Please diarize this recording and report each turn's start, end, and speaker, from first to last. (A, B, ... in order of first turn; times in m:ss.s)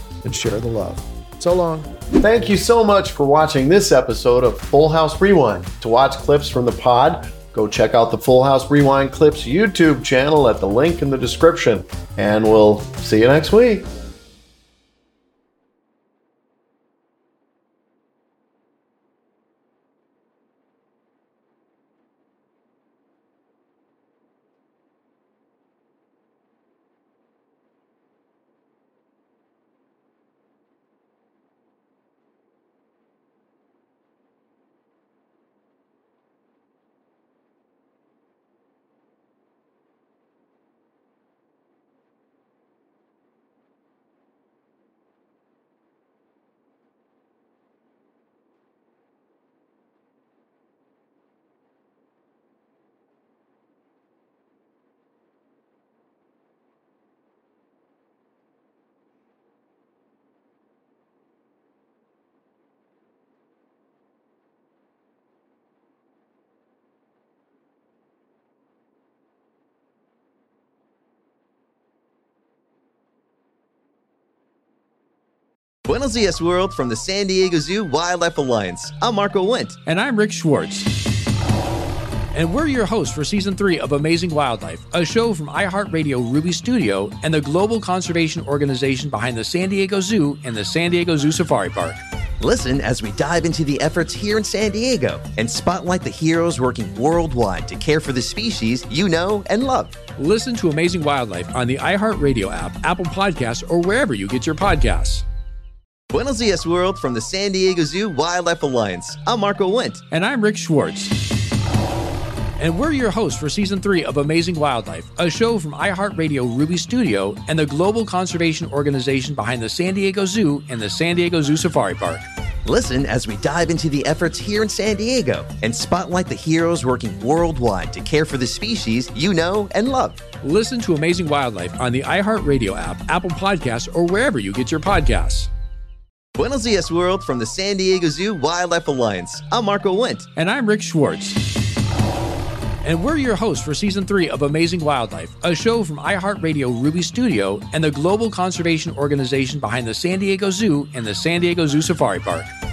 0:00.2-0:13.9 A
1:15.8-1:19.8 B
1:19.8-1:20.9 C
1:22.3-1:32.0 C
1:32.4-1:40.0 B
1:40.2-1:45.2 C
1:46.1-1:50.0 B
1:50.1-1:51.2 C
1:52.6-2:02.2 C
2:02.6-2:10.2 B
2:10.4-2:15.5 C
2:16.4-2:20.3 B
2:20.4-2:21.4 C
2:22.8-2:32.5 C